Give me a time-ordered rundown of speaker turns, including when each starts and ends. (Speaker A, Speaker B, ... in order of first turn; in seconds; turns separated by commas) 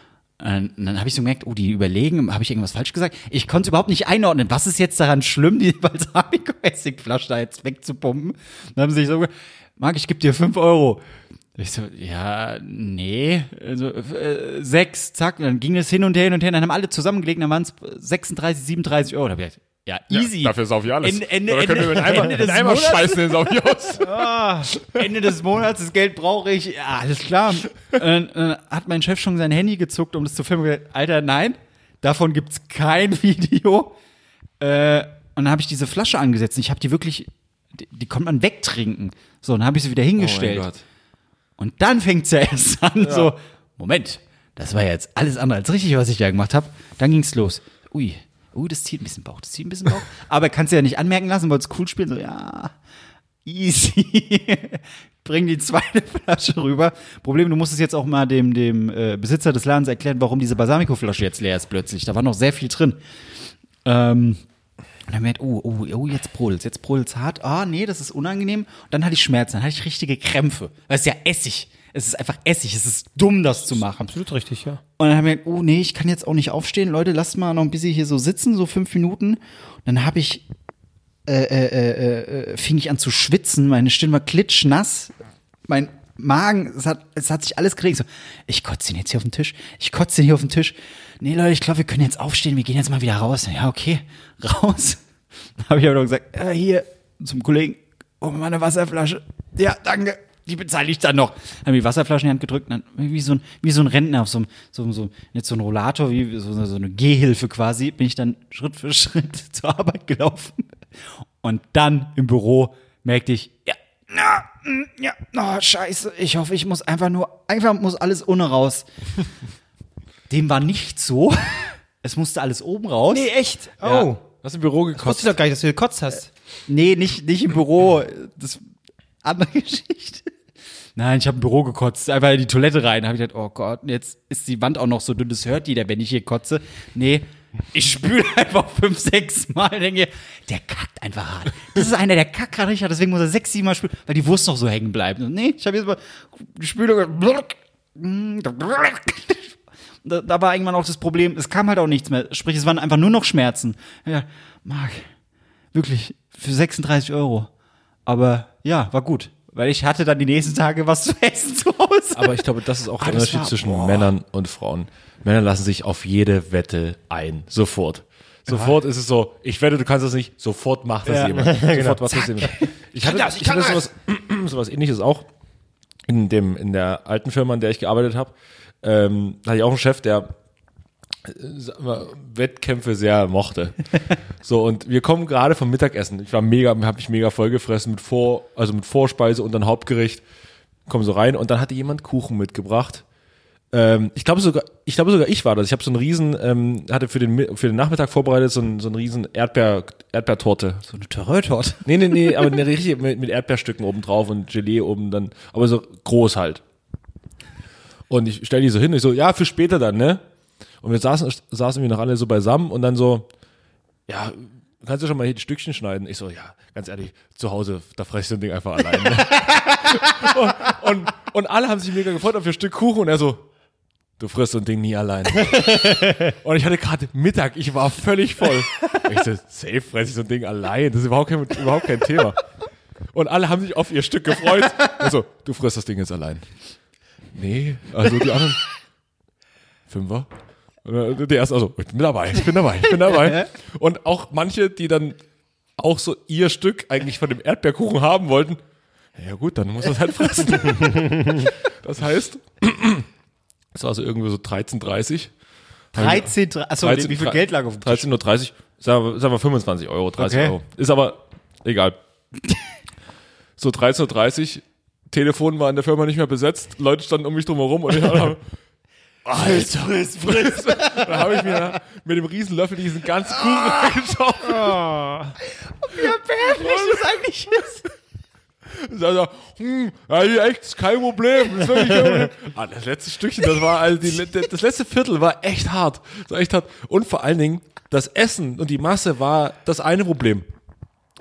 Speaker A: 0.4-11.0, Speaker A: 11.6-23.6, Speaker B: 20.1-24.1, Speaker C: 24.0-24.7, Speaker A: 24.8-33.9, Speaker A: 34.6-40.7, Speaker B: 40.1-40.8, Speaker A: 41.6-52.7, Speaker B: 43.0-43.3, Speaker A: 53.4-63.0, Speaker A: 63.8-64.4, Speaker A: 65.1-74.1, Speaker C: 73.8-74.8, Speaker A: 75.0-80.4, Speaker A: 81.2-85.1, Speaker A: 85.7-95.0, Speaker A: 95.6-110.8, Speaker A: 111.4-118.8, Speaker A: 120.3-123.3, Speaker C: 123.1-124.2, Speaker B: 123.8-125.3, Speaker C: 125.0-126.3, Speaker A: 126.7-128.6, Speaker A: 129.2-130.3, Speaker A: 130.9-155.1, Speaker A: 155.7-157.5, Speaker A: 158.1-162.4, Speaker B: 162.1-175.2, Speaker A: 163.0-164.1, Speaker A: 171.1-171.6, Speaker C: 171.4-172.0, Speaker A: 172.1-173.8, Speaker B: 176.1-180.3, Speaker B: 181.2-190.2, Speaker B: 190.9-193.0, Speaker B: 193.7-200.8, Speaker A: 200.9-202.6, Speaker B: 201.8-206.6, Speaker B: 208.1-210.2, Speaker B: 210.8-213.3, Speaker B: 214.1-223.4, Speaker B: 224.2-232.4, Speaker B: 233.1-236.4, Speaker B: 237.3-238.6, Speaker B: 239.9-240.3, Speaker B: 240.8-245.2, Speaker A: 242.9-243.5, Speaker B: 245.8-248.6, Speaker B: 249.2-253.1, Speaker B: 253.7-255.3, Speaker B: 255.9-261.9, Speaker A: 255.9-258.1, Speaker A: 260.2-260.6, Speaker B: 263.6-268.4, Speaker B: 269.2-274.8, Speaker A: 269.3-271.7, Speaker A: 273.4-273.9, Speaker C: 274.4-275.4, Speaker A: 275.4-277.9, Speaker B: 276.4-277.1, Speaker B: 278.7-290.4